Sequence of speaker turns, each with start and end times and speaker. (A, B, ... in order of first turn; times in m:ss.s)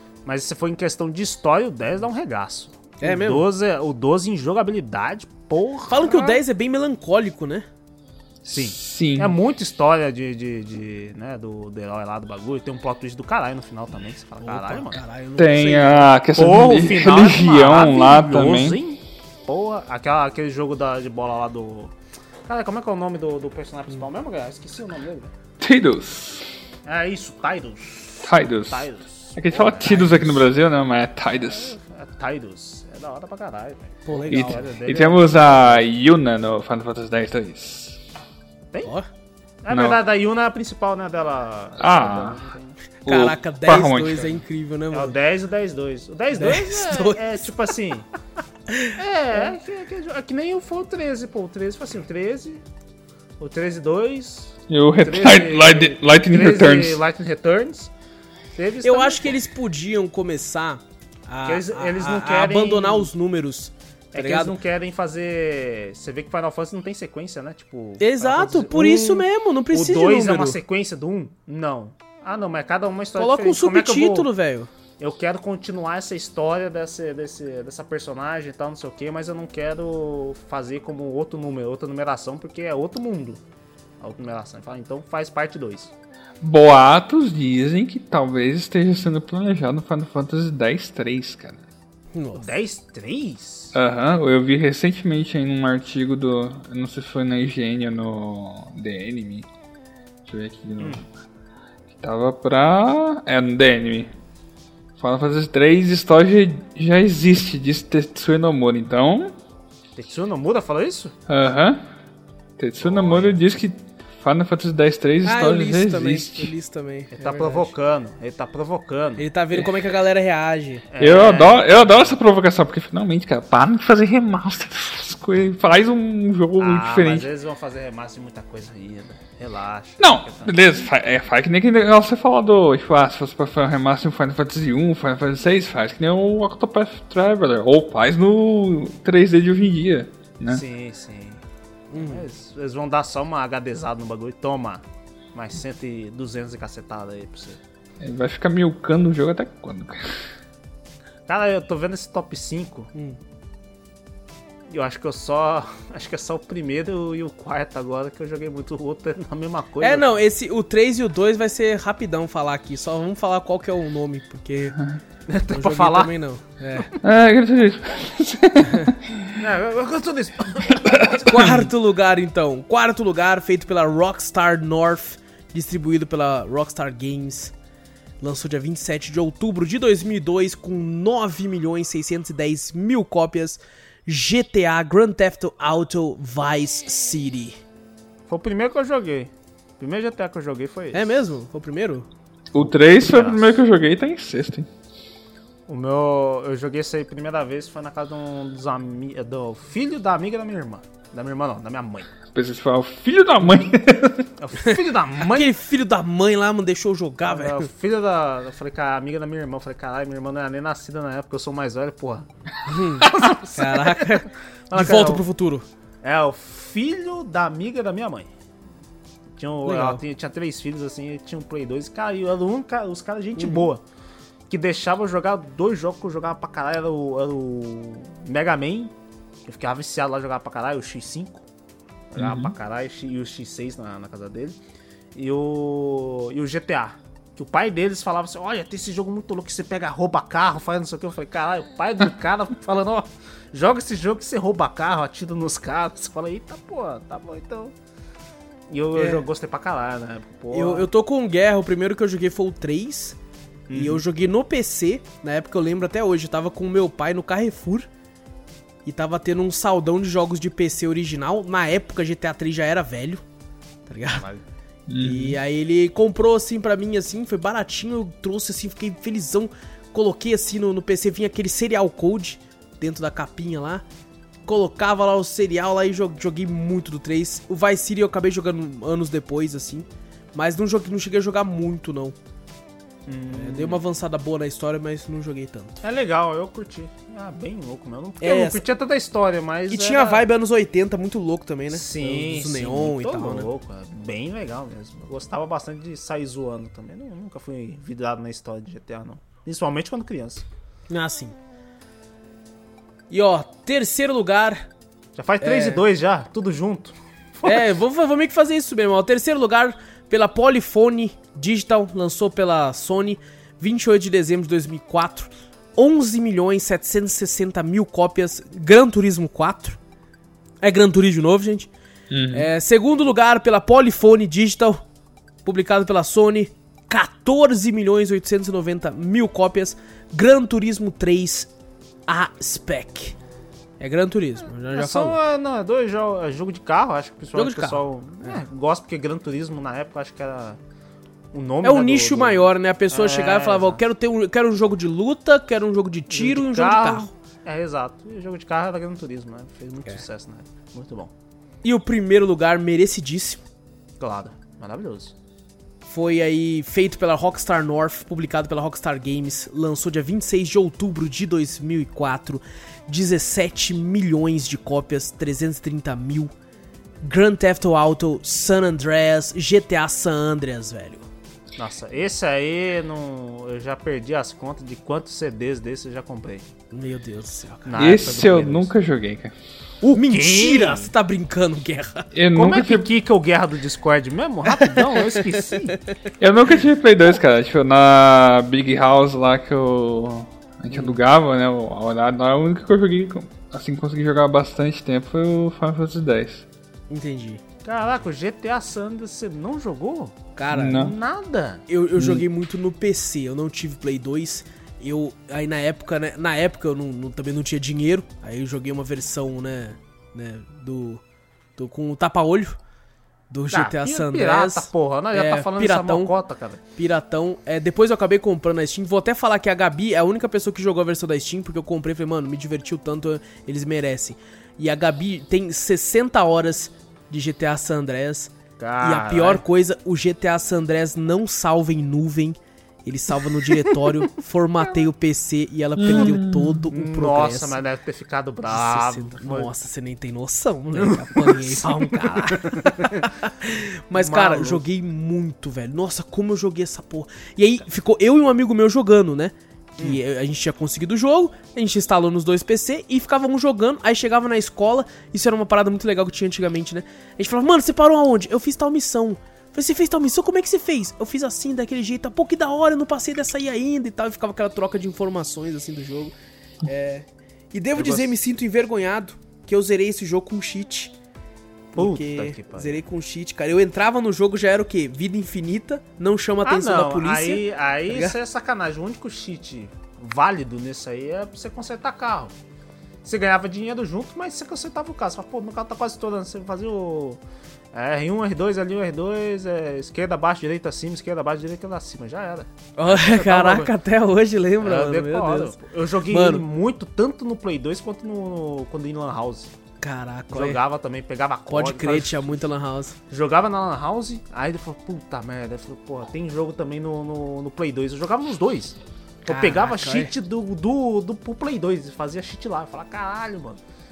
0:00.2-0:06.4 A
0:03.0-0:03.5 B
0:05.9-0:07.6 B
0:08.4-0:09.4 C
0:08.5-0:15.0 A
0:14.4-0:16.1 B
0:15.4-0:18.8 C
0:16.4-0:21.9 A
0:22.5-0:25.3 A
0:25.6-0:26.5 C
0:26.9-0:30.5 A
0:28.2-0:31.8 C
0:31.5-0:35.9 A
0:34.1-0:34.6 B
0:34.3-0:38.0 C
0:39.6-0:42.8 A
0:39.7-0:40.0 C
0:41.8-0:42.4 C
0:43.1-0:44.4 C
0:43.1-0:45.2 B
0:44.9-0:48.1 A
0:46.3-0:47.5 B
0:48.7-0:49.0 B
0:49.0-0:52.6 A
0:53.4-0:57.9 A
0:54.7-0:57.0 C
0:58.6-0:59.4 A
0:58.8-1:04.5 B
1:01.4-1:03.1 A
1:04.1-1:14.3 A
1:08.0-1:10.6 B
1:13.2-1:14.7 B
1:15.0-1:23.4 A
1:24.0-1:25.9 A
1:26.4-1:31.6 C
1:32.1-1:32.5 B
1:32.4-1:33.7 A
1:33.7-1:39.5 C
1:40.3-1:41.0 C
1:41.9-1:44.1 C
1:45.0-1:49.3 C
1:50.0-1:51.1 A
1:51.3-1:51.8 C
1:52.6-1:56.5 C
1:52.8-1:53.4 A
1:55.2-1:57.7 B
1:57.2-1:59.2 A
1:59.2-2:00.9 B
2:00.9-2:02.2 A
2:01.0-2:07.3 C
2:06.6-2:10.5 A
2:10.0-2:20.6 C
2:20.5-2:21.4 A
2:21.9-2:22.3 B
2:22.0-2:27.6 A
2:28.0-2:30.0 C
2:31.3-2:32.9 A
2:34.7-2:40.2 A
2:39.8-2:44.8 B
2:45.3-2:46.1 A
2:45.5-2:46.9 B
2:47.0-2:49.3 C
2:49.4-2:51.1 A
2:50.7-2:51.7 C
2:51.1-2:57.5 B
2:58.2-3:07.6 B
3:08.3-3:11.1 A
3:10.9-3:12.1 B
3:12.5-3:14.7 C
3:12.6-3:13.5 A
3:15.7-3:22.1 A
3:22.3-3:24.2 C
3:24.4-3:25.6 A
3:24.6-3:27.7 B
3:27.3-3:32.3 A
3:32.7-3:35.6 B
3:33.0-3:35.2 A
3:36.0-3:38.3 A
3:39.4-3:43.8 A
3:39.7-3:40.0 B
3:43.4-3:43.7 B
3:44.5-3:48.9 A
3:49.4-3:51.4 A
3:52.1-3:54.6 A
3:52.2-3:52.5 C
3:55.2-4:07.7 A
4:08.7-4:10.9 A
4:09.0-4:09.2 B
4:10.5-4:13.2 B
4:13.7-4:14.0 A
4:13.7-4:17.9 B
4:18.9-4:23.2 B
4:23.9-4:24.3 B
4:24.1-4:24.4 A
4:24.9-4:25.4 C
4:25.0-4:33.8 B
4:34.5-4:42.2 B
4:43.1-4:43.8 A
4:43.3-4:45.8 B
4:45.8-4:50.3 A
4:48.2-4:48.6 B
4:49.7-4:53.5 B
4:51.7-5:00.4 A
5:00.9-5:01.4 B
5:03.1-5:04.7 B
5:05.2-5:07.6 A
5:05.4-5:05.8 B
5:07.4-5:19.8 B
5:20.6-5:21.7 B
5:22.1-5:22.5 C
5:22.3-5:24.8 B
5:25.4-5:31.5 B
5:32.1-5:33.2 B
5:33.8-5:35.2 B
5:34.7-5:40.6 A
5:37.4-5:38.4 B
5:41.3-5:43.8 A
5:41.6-5:47.1 B
5:46.1-5:51.1 A
5:51.6-5:53.4 B
5:54.0-5:55.1 A
5:55.9-6:06.3 B
6:07.0-6:11.1 B
6:11.6-6:16.5 A
6:16.7-6:17.7 B
6:17.6-6:18.7 A
6:17.8-6:19.3 C
6:19.8-6:20.9 A
6:19.9-6:22.1 B
6:22.2-6:22.9 C
6:22.4-6:25.8 A
6:24.5-6:26.1 B
6:26.2-6:36.4 C
6:30.7-6:31.0 B
6:36.9-6:37.4 B
6:37.6-6:41.6 A
6:40.4-6:40.8 B
6:40.5-6:41.0 C
6:41.7-6:51.0 B
6:42.0-6:42.2 C
6:51.6-6:52.6 B
6:53.3-6:56.1 B
6:53.5-6:56.6 A
6:56.8-7:17.6 B
7:08.6-7:09.4 A
7:13.7-7:13.9 A
7:15.8-7:16.6 C
7:15.8-7:16.2 A
7:16.7-7:19.5 A
7:18.5-7:50.9 B
7:20.8-7:23.1 A
7:23.9-7:24.6 A
7:47.8-7:48.1 A
7:51.7-7:58.1 B
7:51.8-7:52.8 A
7:56.4-8:02.3 A
8:03.0-8:07.2 A
8:07.7-8:13.7 A
8:12.8-8:16.5 B
8:14.6-8:19.5 A
8:19.8-8:20.6 B
8:20.3-8:22.4 A
8:21.5-8:23.0 B
8:23.1-8:33.6 A
8:29.2-8:30.1 B